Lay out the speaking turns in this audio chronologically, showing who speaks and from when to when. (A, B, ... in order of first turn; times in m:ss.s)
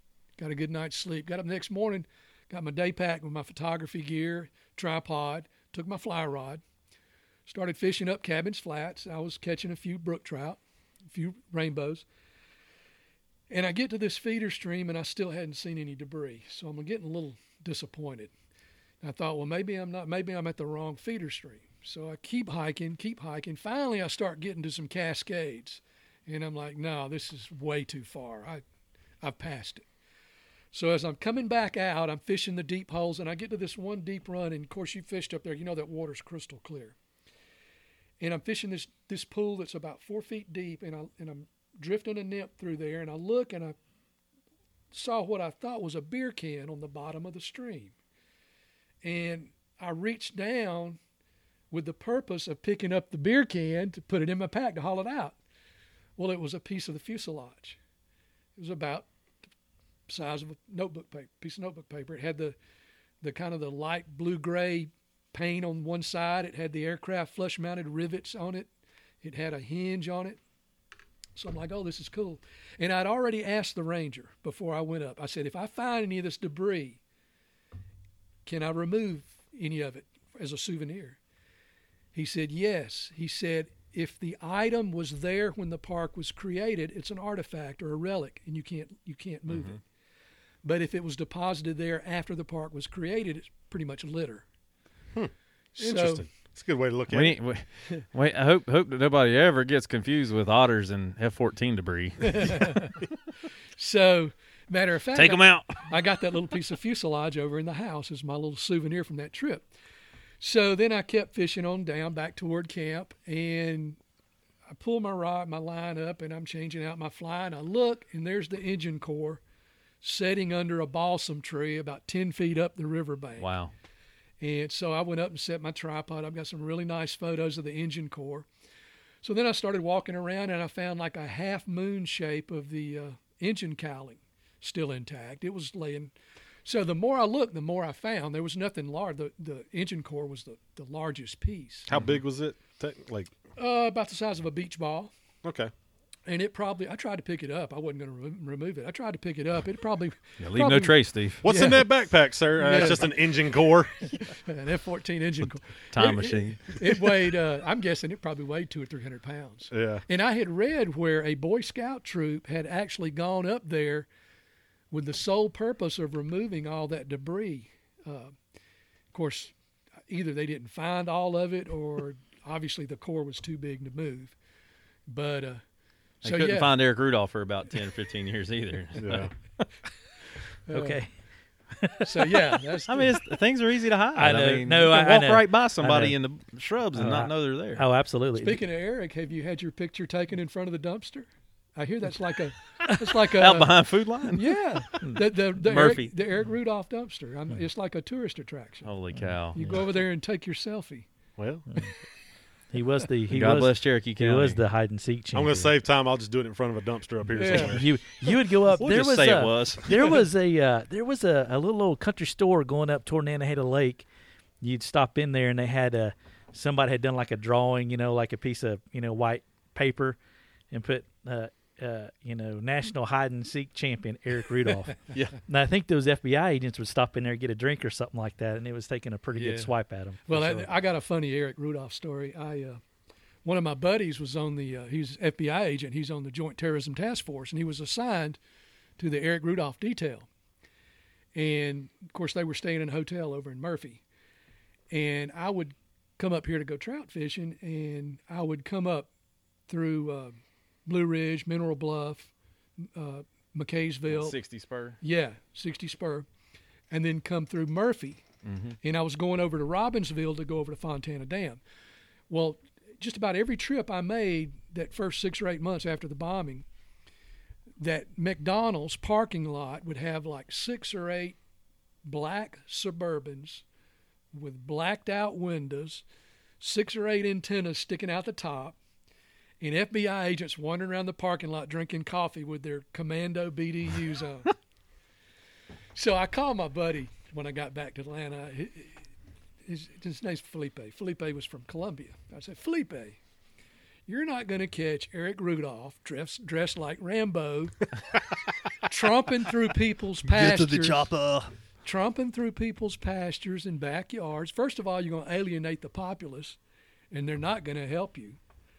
0:00.4-0:06.6 A
0:07.4-0:12.0 A
0:13.5-0:18.3 A
0:19.0-0:28.6 A
0:29.2-0:29.8 A
0:30.7-0:36.9 A
0:38.2-0:43.8 A
0:44.9-0:47.9 A
0:49.0-0:51.0 A
0:51.7-0:55.4 A
0:56.2-0:57.8 A
0:58.6-0:59.1 A
1:00.1-1:02.5 A
1:03.2-1:08.7 A
1:09.2-1:10.4 A
1:11.4-1:17.0 A
1:18.4-1:21.2 A
1:22.1-1:29.8 A
1:29.5-1:29.8 B
1:30.6-1:34.4 A
1:35.1-1:37.4 C
1:35.8-1:36.3 A
1:37.1-1:42.8 B
1:42.2-1:43.0 A
1:43.8-1:49.7 A
1:45.1-1:45.9 B
1:50.4-1:54.0 A
1:54.7-1:59.4 A
2:00.0-2:03.5 A
2:03.4-2:03.7 B
2:04.4-2:08.5 A
2:09.2-2:16.1 A
2:16.6-2:21.9 A
2:21.9-2:23.3 C
2:21.9-2:22.2 B
2:23.6-2:25.1 A
2:25.4-2:25.7 C
2:26.2-2:31.9 A
2:30.4-2:31.4 B
2:31.4-2:33.9 C
2:32.6-2:33.3 A
2:34.0-2:44.1 A
2:35.9-2:36.8 B
2:39.7-2:40.0 C
2:44.9-2:48.3 A
2:49.1-2:49.5 A
2:50.1-2:54.4 A
2:55.1-2:55.6 A
2:56.2-2:59.3 B
2:56.2-2:56.7 A
2:59.0-2:59.3 C
3:00.7-3:01.0 A
3:00.7-3:01.1 D
3:01.8-3:02.6 D
3:02.0-3:03.2 A
3:02.9-3:07.8 B
3:04.1-3:06.1 D
3:06.9-3:08.6 D
3:08.4-3:13.7 A
3:13.3-3:16.1 B
3:14.3-3:18.9 A
3:18.8-3:19.6 B
3:19.2-3:19.8 D
3:19.5-3:21.0 A
3:21.4-3:21.7 C
3:22.7-3:25.7 D
3:23.3-3:24.6 B
3:25.3-3:27.8 C
3:27.3-3:27.8 A
3:27.5-3:34.0 D
3:28.7-3:30.2 B
3:34.6-3:40.2 D
3:40.7-3:50.7 D
3:50.3-3:52.8 A
3:53.4-3:58.4 A
3:59.0-4:00.3 A
4:01.3-4:04.0 A
4:04.9-4:09.1 A
4:09.7-4:12.3 A
4:12.8-4:14.4 A
4:14.1-4:15.0 B
4:15.0-4:16.3 A
4:16.9-4:18.2 A
4:18.4-4:18.8 B
4:18.8-4:21.6 A
4:22.3-4:26.6 A
4:27.8-4:31.4 A
4:32.0-4:33.6 A
4:34.3-4:36.0 A
4:36.6-4:38.8 A
4:39.6-4:44.6 A
4:45.9-4:49.0 A
4:49.6-4:53.2 A
4:54.1-4:57.9 A
4:58.8-5:01.1 A
5:00.3-5:01.4 D
5:01.8-5:06.6 A
5:07.1-5:08.4 A